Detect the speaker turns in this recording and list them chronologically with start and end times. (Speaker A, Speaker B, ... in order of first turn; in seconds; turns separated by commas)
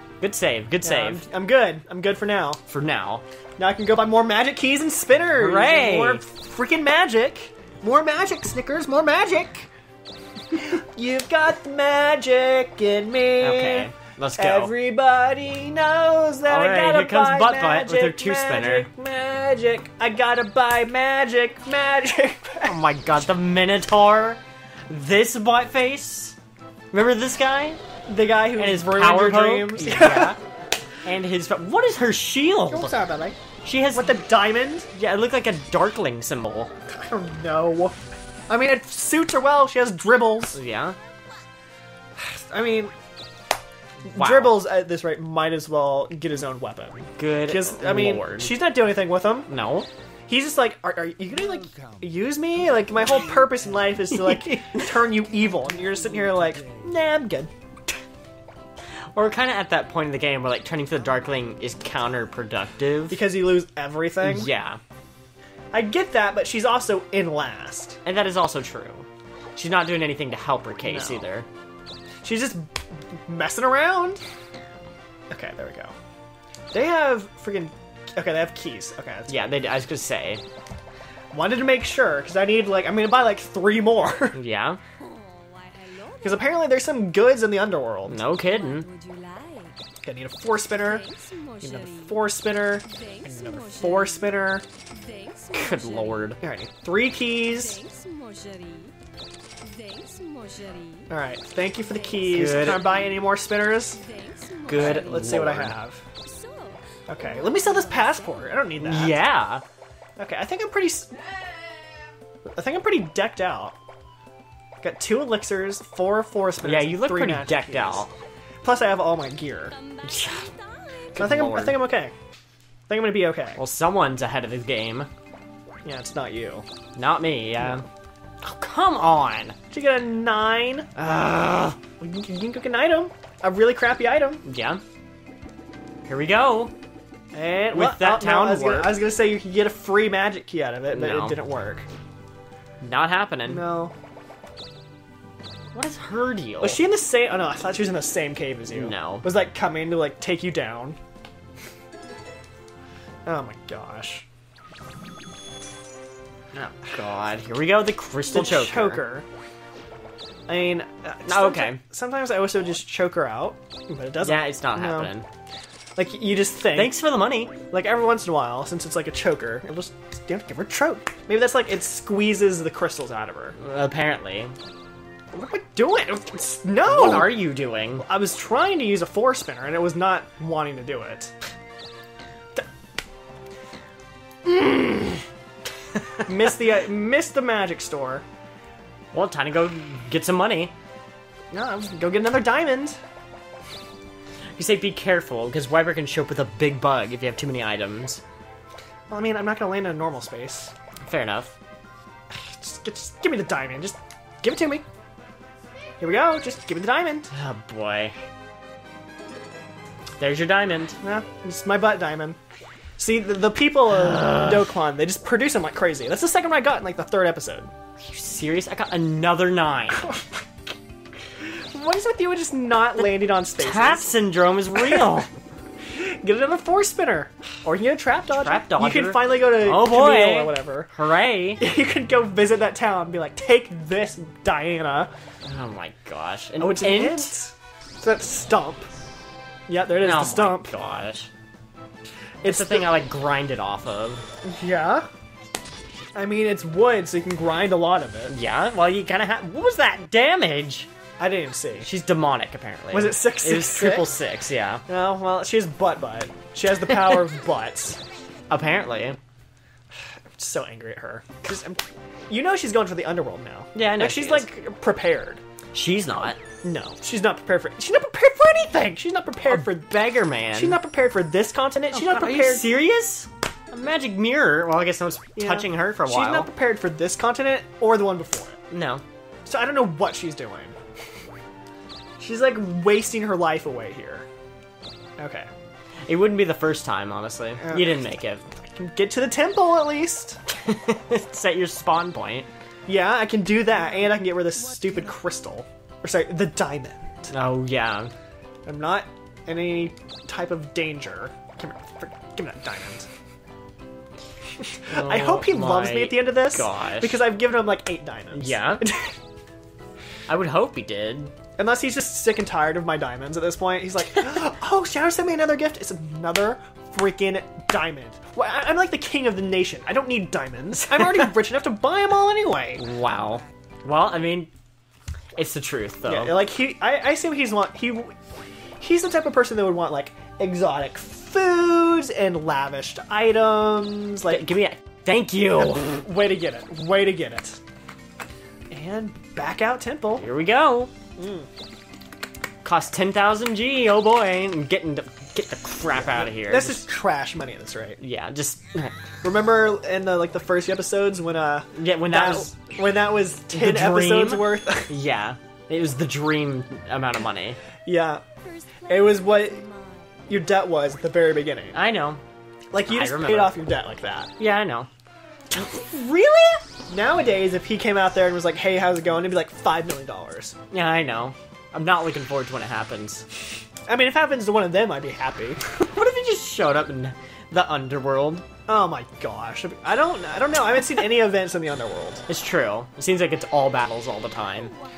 Speaker A: 0.2-1.2, Speaker B: 0.8-2.6, Speaker A: 2.7-3.2, Speaker B: 3.6-9.7, Speaker A: 5.4-6.2, Speaker B: 10.5-22.8, Speaker A: 13.4-14.7, Speaker A: 16.5-18.9, Speaker A: 22.7-26.4, Speaker A: 26.9-27.8, Speaker B: 28.1-30.4, Speaker A: 28.6-30.4, Speaker A: 31.1-32.9, Speaker B: 32.7-33.4, Speaker A: 33.6-34.2, Speaker B: 33.9-34.9, Speaker A: 34.9-36.7, Speaker B: 36.9-38.0, Speaker B: 38.5-40.6, Speaker A: 40.5-41.0, Speaker B: 42.2-42.9, Speaker B: 44.1-49.5, Speaker A: 44.1-44.7, Speaker A: 47.2-48.6, Speaker A: 49.5-49.9, Speaker B: 50.3-57.5, Speaker A: 59.1-63.2, Speaker B: 63.1-64.5, Speaker A: 64.2-64.8, Speaker B: 65.7-68.0, Speaker A: 68.0-71.5, Speaker B: 70.8-71.3, Speaker B: 72.2-72.8, Speaker B: 73.3-74.2, Speaker B: 75.3-75.9, Speaker B: 76.7-79.5, Speaker A: 79.3-80.4, Speaker B: 81.3-84.4, Speaker A: 84.3-84.8, Speaker C: 85.4-86.2, Speaker B: 86.2-88.2, Speaker A: 88.1-88.9, Speaker C: 88.4-89.8, Speaker B: 90.0-91.1, Speaker C: 90.9-92.2, Speaker B: 91.6-94.7, Speaker C: 92.8-94.4, Speaker C: 95.0-96.3, Speaker A: 95.5-96.4, Speaker B: 96.4-97.8, Speaker C: 97.5-98.9, Speaker C: 99.7-101.1, Speaker B: 101.1-104.0, Speaker C: 102.0-103.2, Speaker A: 102.3-102.9, Speaker C: 104.0-105.3, Speaker A: 104.7-105.7, Speaker B: 104.7-106.0, Speaker C: 106.3-108.5, Speaker B: 107.1-109.2, Speaker A: 108.8-109.6, Speaker B: 110.2-111.1, Speaker B: 112.5-113.8, Speaker B: 114.8-118.1, Speaker A: 116.6-118.1, Speaker B: 118.6-119.8, Speaker C: 119.8-121.0, Speaker A: 120.0-120.5, Speaker A: 121.1-121.8, Speaker B: 121.2-122.1, Speaker B: 122.9-123.6, Speaker A: 123.6-125.1, Speaker B: 125.8-126.7, Speaker A: 127.0-127.9, Speaker A: 128.4-129.6, Speaker B: 129.7-131.0, Speaker A: 131.0-131.8, Speaker B: 131.9-134.4, Speaker A: 134.4-134.8, Speaker A: 136.1-136.7, Speaker B: 137.3-141.9, Speaker A: 137.7-139.0, Speaker A: 140.9-141.4, Speaker A: 142.8-143.7, Speaker B: 143.5-143.9, Speaker A: 145.7-146.8, Speaker B: 146.6-151.0, Speaker A: 148.7-149.3, Speaker B: 153.3-154.2, Speaker A: 156.5-159.0, Speaker B: 158.3-159.3, Speaker B: 160.5-165.1, Speaker A: 161.3-161.8, Speaker A: 164.2-165.3, Speaker B: 166.0-167.0, Speaker A: 166.7-167.6, Speaker B: 167.6-173.6, Speaker A: 173.6-174.5, Speaker B: 175.3-177.4, Speaker A: 176.8-178.1, Speaker B: 178.0-181.3, Speaker B: 186.2-188.2, Speaker A: 189.1-190.7, Speaker B: 191.5-193.0, Speaker A: 194.6-198.2, Speaker B: 199.1-200.7, Speaker A: 201.1-201.6, Speaker B: 202.3-204.8, Speaker B: 206.0-207.3, Speaker A: 207.3-208.2, Speaker A: 210.2-211.0, Speaker B: 211.0-212.4, Speaker B: 213.0-217.7, Speaker A: 214.2-214.6, Speaker A: 218.0-220.1, Speaker B: 221.4-224.2, Speaker A: 223.6-225.3, Speaker B: 224.8-225.1, Speaker B: 225.9-230.9, Speaker A: 228.3-231.6, Speaker B: 231.6-235.1, Speaker A: 235.5-237.3, Speaker B: 236.6-238.9, Speaker B: 239.7-240.7, Speaker A: 240.0-241.3, Speaker B: 242.4-242.9, Speaker A: 242.5-244.2, Speaker B: 244.4-245.1, Speaker B: 246.2-248.4, Speaker A: 248.3-250.9, Speaker B: 251.2-251.9, Speaker A: 251.8-254.8, Speaker B: 252.9-254.2, Speaker B: 254.9-258.0, Speaker A: 258.5-259.2, Speaker B: 260.4-265.4, Speaker A: 263.7-264.5, Speaker A: 265.7-266.4, Speaker B: 266.6-269.9, Speaker A: 269.5-270.8, Speaker B: 270.5-272.7, Speaker A: 271.9-276.5, Speaker B: 275.4-278.6, Speaker A: 278.7-279.0, Speaker B: 279.5-280.8, Speaker B: 282.2-284.3, Speaker B: 285.2-285.5, Speaker A: 286.1-288.5, Speaker B: 287.6-290.4, Speaker A: 290.5-292.5, Speaker B: 292.9-297.3, Speaker A: 297.3-298.1, Speaker B: 298.7-303.1, Speaker B: 304.6-309.2, Speaker A: 304.9-307.2, Speaker A: 308.3-308.9, Speaker A: 310.3-311.3, Speaker B: 311.6-322.8, Speaker A: 322.8-324.5, Speaker A: 325.4-326.4, Speaker B: 326.0-328.1, Speaker B: 328.8-334.5, Speaker A: 334.3-336.1, Speaker B: 335.8-337.6, Speaker B: 338.7-340.3, Speaker A: 340.2-340.9, Speaker B: 341.2-341.5, Speaker A: 342.6-346.9, Speaker B: 346.0-348.0, Speaker A: 348.0-348.9, Speaker B: 349.2-354.9, Speaker A: 351.7-352.6, Speaker A: 353.5-357.6, Speaker B: 357.9-358.2, Speaker B: 358.9-359.7, Speaker B: 360.3-361.8, Speaker A: 361.7-362.2, Speaker B: 362.7-364.3, Speaker A: 362.9-363.6, Speaker A: 364.4-364.9, Speaker A: 365.5-366.6, Speaker B: 366.9-370.6, Speaker A: 370.7-373.2, Speaker B: 373.9-375.6, Speaker A: 375.6-378.4, Speaker B: 378.7-382.2, Speaker A: 382.3-384.7